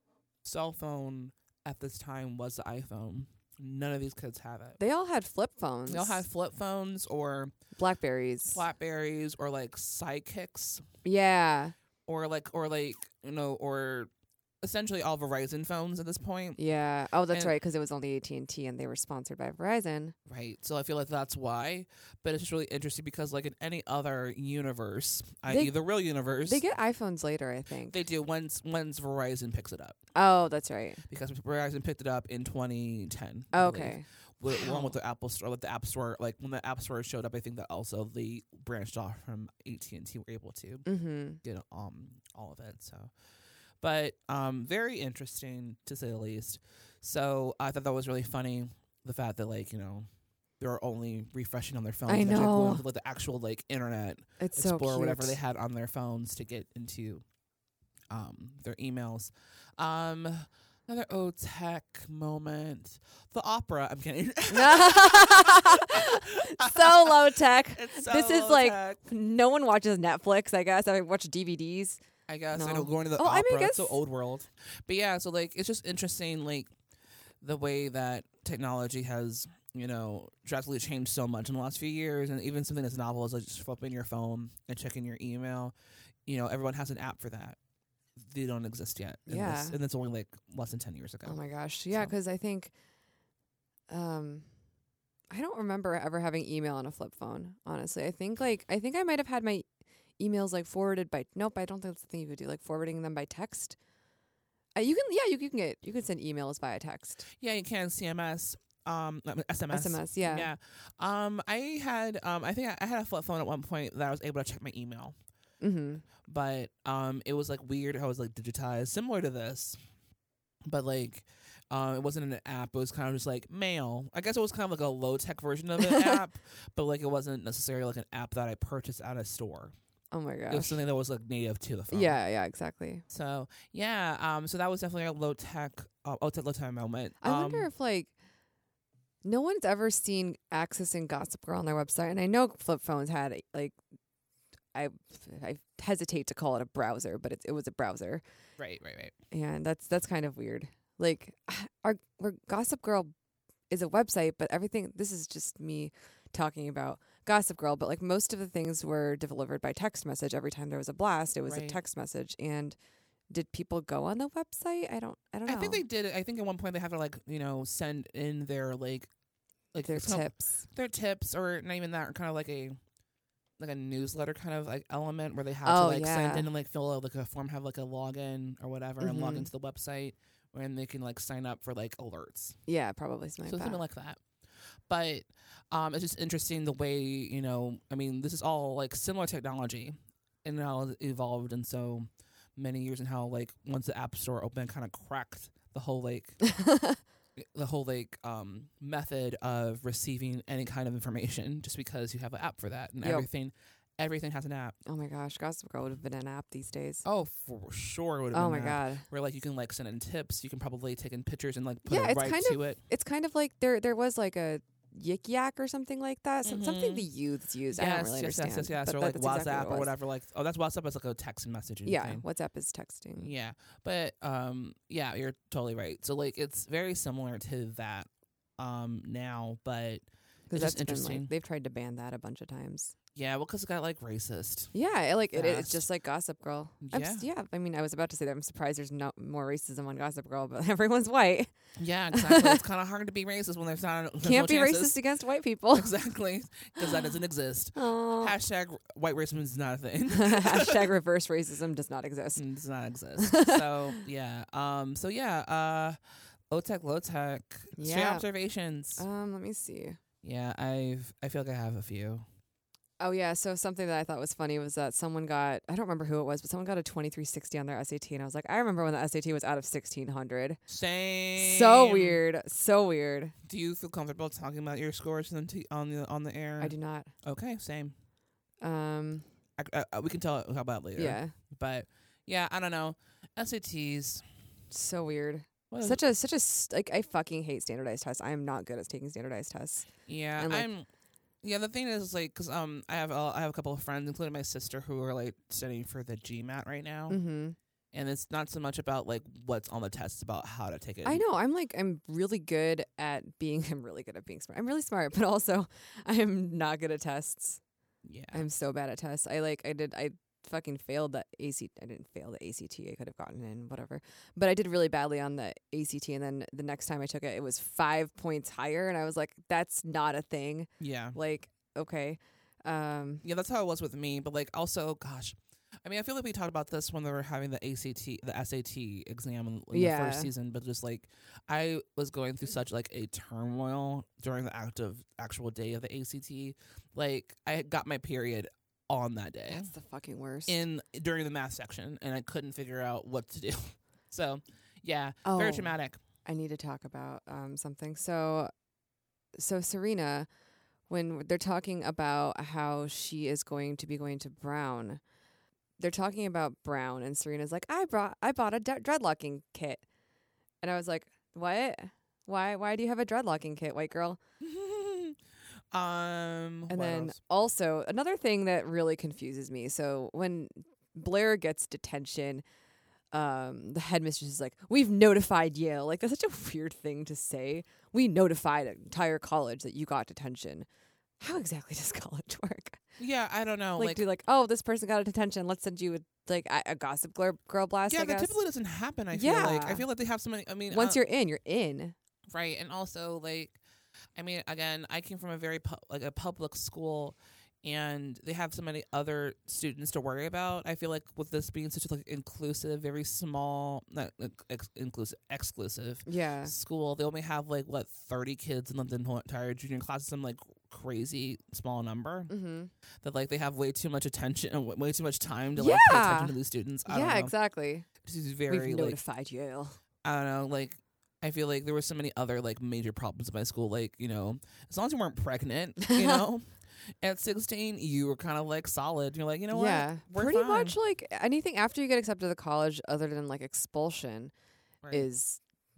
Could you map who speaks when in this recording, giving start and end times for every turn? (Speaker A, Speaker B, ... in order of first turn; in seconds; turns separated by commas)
Speaker A: 0.4-4.8, Speaker B: 4.8-6.2, Speaker A: 5.9-7.5, Speaker B: 7.8-8.6, Speaker A: 8.5-10.8, Speaker B: 11.0-11.7, Speaker A: 12.1-14.1, Speaker A: 14.6-16.6, Speaker B: 16.6-20.1, Speaker A: 20.3-26.6, Speaker B: 25.5-25.7, Speaker B: 26.4-28.0, Speaker A: 27.9-30.0, Speaker B: 30.1-31.0, Speaker A: 31.1-40.9, Speaker B: 33.5-34.9, Speaker B: 40.9-41.4, Speaker A: 41.4-43.1, Speaker A: 43.8-50.1, Speaker A: 50.6-57.2, Speaker B: 52.1-52.8, Speaker B: 54.4-55.4, Speaker A: 58.1-69.0, Speaker B: 64.5-72.0, Speaker A: 72.3-76.7, Speaker B: 72.5-74.0, Speaker A: 77.4-85.7, Speaker A: 86.2-87.6, Speaker A: 88.2-91.4, Speaker B: 89.3-89.8, Speaker B: 91.2-92.7, Speaker B: 93.9-94.5, Speaker B: 95.3-99.7, Speaker B: 100.2-103.8, Speaker B: 104.7-107.2, Speaker A: 107.4-115.1, Speaker B: 109.7-110.5, Speaker B: 115.6-116.0, Speaker A: 116.2-119.8, Speaker A: 120.6-129.7, Speaker B: 125.8-126.2, Speaker B: 130.1-130.8, Speaker A: 130.5-132.2, Speaker B: 131.9-133.0, Speaker A: 133.1-137.7, Speaker B: 137.2-138.1, Speaker B: 139.2-143.7, Speaker B: 144.7-148.2, Speaker A: 148.6-149.1, Speaker B: 149.3-153.1, Speaker B: 153.7-162.8, Speaker A: 161.4-161.8, Speaker B: 163.3-165.8, Speaker A: 165.4-169.1, Speaker A: 169.7-172.8, Speaker B: 169.8-170.6, Speaker A: 173.6-182.6, Speaker B: 175.6-176.5, Speaker B: 179.0-179.5, Speaker B: 182.7-183.8, Speaker A: 183.4-184.2, Speaker A: 184.9-196.4, Speaker B: 196.4-197.0, Speaker A: 197.4-204.8, Speaker B: 203.0-203.3, Speaker B: 204.8-207.0, Speaker A: 207.0-212.8, Speaker B: 208.3-209.0, Speaker B: 211.8-219.9, Speaker A: 216.4-217.1, Speaker A: 217.7-222.2, Speaker B: 221.8-223.3, Speaker A: 223.2-231.3, Speaker B: 230.5-232.9, Speaker A: 233.1-234.7, Speaker B: 234.7-241.5, Speaker A: 235.3-235.8, Speaker A: 236.8-237.2, Speaker A: 241.8-245.0, Speaker B: 242.1-242.6, Speaker B: 244.2-245.9, Speaker A: 245.7-250.8, Speaker B: 247.7-248.3, Speaker B: 250.1-252.4, Speaker A: 252.3-256.0, Speaker B: 253.2-254.0, Speaker A: 256.5-259.0, Speaker B: 257.8-258.2, Speaker B: 259.0-260.0, Speaker A: 260.2-262.2, Speaker B: 263.0-270.6, Speaker A: 270.7-272.2, Speaker B: 271.4-273.3, Speaker A: 273.4-277.9, Speaker B: 276.6-277.1, Speaker B: 278.6-279.2, Speaker A: 279.6-284.2, Speaker B: 281.0-281.3, Speaker B: 284.7-289.9, Speaker A: 285.7-286.0, Speaker A: 290.1-290.9, Speaker B: 290.4-290.7, Speaker A: 291.4-297.2, Speaker B: 297.1-297.6, Speaker A: 297.9-301.2, Speaker B: 301.0-307.6, Speaker A: 308.0-308.5, Speaker B: 308.3-323.2, Speaker A: 320.8-321.2, Speaker A: 323.2-339.7, Speaker B: 329.7-330.3, Speaker B: 339.5-340.6, Speaker A: 340.4-346.0, Speaker B: 345.2-345.7, Speaker B: 346.2-348.5, Speaker B: 349.3-350.3, Speaker B: 350.9-355.0, Speaker B: 355.8-359.8, Speaker B: 360.6-364.2, Speaker A: 364.4-365.2, Speaker A: 365.7-367.2, Speaker B: 366.7-372.4, Speaker B: 373.1-380.7, Speaker B: 381.2-382.8, Speaker A: 383.0-384.0, Speaker B: 383.8-388.3, Speaker A: 387.9-391.0, Speaker B: 389.1-389.9, Speaker B: 390.7-391.9, Speaker A: 392.3-393.6, Speaker A: 394.1-412.3, Speaker B: 406.1-406.5, Speaker B: 412.3-412.7, Speaker A: 413.0-417.3, Speaker B: 415.6-416.3, Speaker B: 416.9-417.9, Speaker A: 418.0-419.0, Speaker B: 418.5-419.8, Speaker A: 420.0-426.5, Speaker B: 425.8-426.2, Speaker A: 427.0-430.8, Speaker B: 429.5-434.3, Speaker A: 434.8-435.1, Speaker B: 434.9-435.4